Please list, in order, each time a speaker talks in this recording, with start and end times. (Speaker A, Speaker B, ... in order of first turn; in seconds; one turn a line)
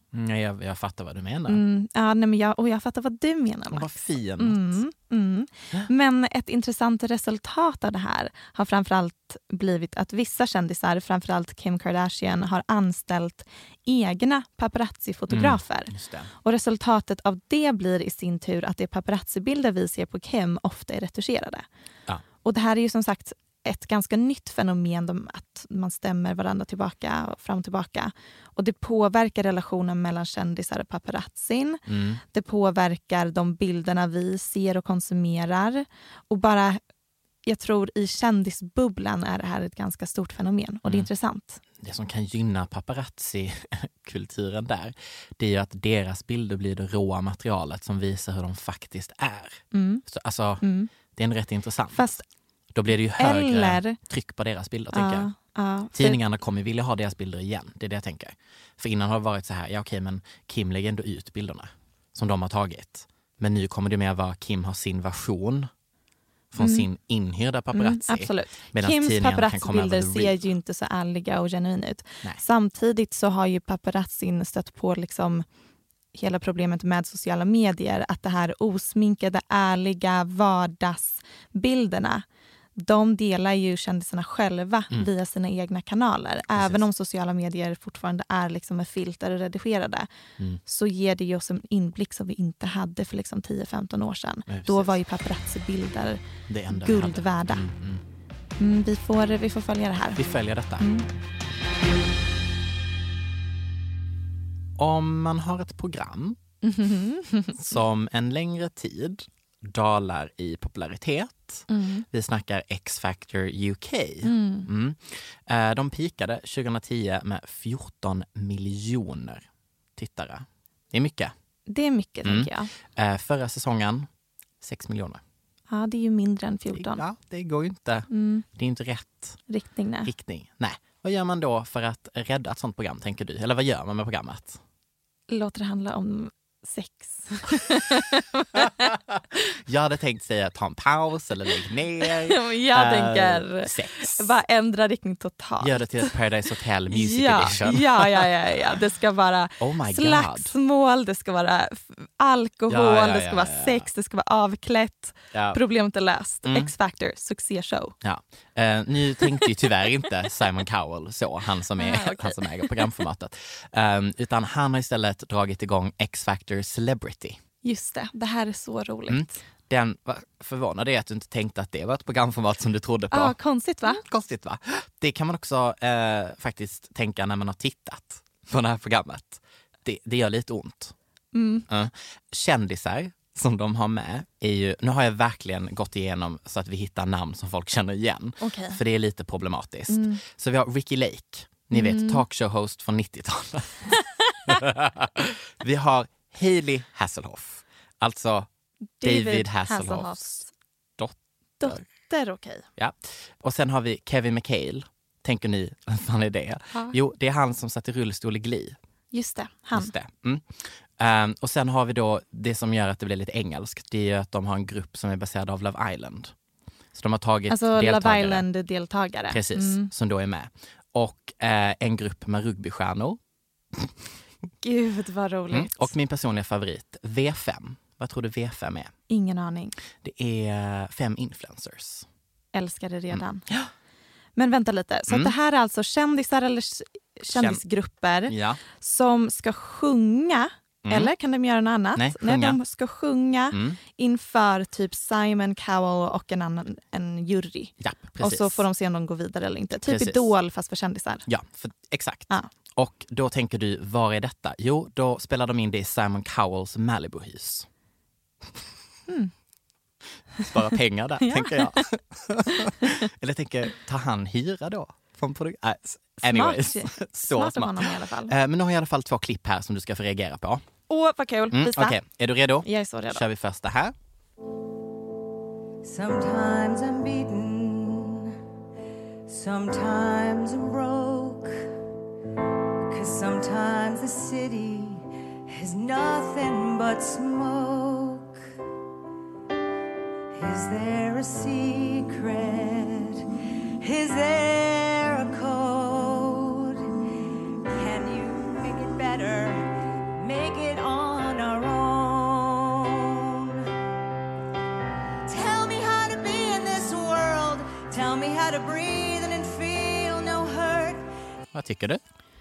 Speaker A: 0.1-1.6
Speaker B: 1.5-21.7
Speaker A: 3.7-4.8
Speaker A: 15.3-16.3
Speaker B: 22.4-36.8
Speaker A: 31.9-32.2
Speaker B: 37.5-41.6
Speaker A: 41.8-52.1
Speaker B: 49.7-50.0
Speaker B: 50.6-50.9
Speaker B: 51.9-52.2
Speaker A: 52.7-55.3
Speaker B: 53.2-54.0
Speaker B: 54.9-56.2
Speaker A: 55.9-65.7
Speaker A: 66.5-70.4
Speaker B: 66.6-66.9
Speaker B: 67.7-75.5
Speaker B: 76.2-82.2
Speaker B: 82.8-90.1
Speaker A: 86.5-86.8
Speaker B: 90.7-97.7
Speaker A: 94.5-95.0
Speaker A: 96.5-98.0
Speaker B: 98.6-100.2
Speaker A: 100.2-100.8
Speaker B: 100.8-101.1
Speaker A: 104.8-106.4
Speaker B: 106.6-107.6
Speaker A: 107.6-119.5
Speaker B: 111.7-112.0
Speaker B: 114.2-114.7
Speaker A: 120.0-121.3
Speaker B: 121.7-122.7
Speaker A: 122.2-124.1
Speaker A: 124.6-125.2
Speaker B: 125.7-127.0
Speaker A: 126.7-129.4
Speaker B: 128.1-128.4
Speaker B: 129.5-130.1
Speaker A: 130.1-134.6
Speaker B: 135.3-138.6
Speaker A: 139.7-144.3
Speaker B: 142.3-146.1
Speaker A: 145.6-148.3
Speaker B: 146.9-158.0
Speaker A: 149.6-150.5
Speaker A: 152.7-153.9
Speaker A: 155.3-155.6
Speaker A: 156.4-156.7
Speaker A: 158.0-167.4
Speaker B: 161.8-162.7
Speaker B: 167.6-169.4
Speaker A: 169.1-180.9
Speaker B: 173.1-174.0
Speaker B: 181.3-181.7
Speaker A: 181.7-193.9
Speaker B: 188.4-188.8
Speaker B: 189.9-190.2
Speaker B: 191.7-192.2
Speaker A: 194.5-198.5
Speaker B: 199.0-200.5
Speaker A: 199.0-200.3
Speaker A: 201.0-201.8
Speaker B: 201.6-202.7
Speaker A: 202.8-208.8
Speaker B: 209.1-209.9
Speaker A: 209.8-216.3
Speaker A: 216.9-218.4
Speaker B: 217.5-219.9
Speaker A: 219.3-223.2
Speaker B: 224.6-225.9
Speaker A: 225.5-228.9
Speaker B: 229.1-229.8
Speaker A: 230.0-232.1
Speaker B: 232.5-233.4
Speaker A: 233.1-233.7
Speaker B: 234.4-251.3
Speaker A: 235.1-235.3
Speaker A: 237.3-237.6
Speaker A: 238.3-238.6
Speaker A: 240.8-241.1
Speaker A: 242.0-242.6
Speaker A: 243.5-243.8
Speaker A: 247.8-248.7
Speaker A: 249.8-250.3
Speaker A: 251.3-257.7
Speaker A: 260.4-270.6
Speaker B: 261.2-261.8
Speaker B: 266.2-268.3
Speaker B: 270.9-272.0
Speaker A: 271.5-273.9
Speaker B: 272.6-273.2
Speaker C: 275.8-278.3
Speaker C: 279.3-281.6
Speaker C: 282.9-288.4
Speaker C: 290.3-293.2
Speaker C: 293.8-296.9
Speaker C: 297.7-303.6
Speaker C: 305.3-311.0
Speaker A: 311.5-312.0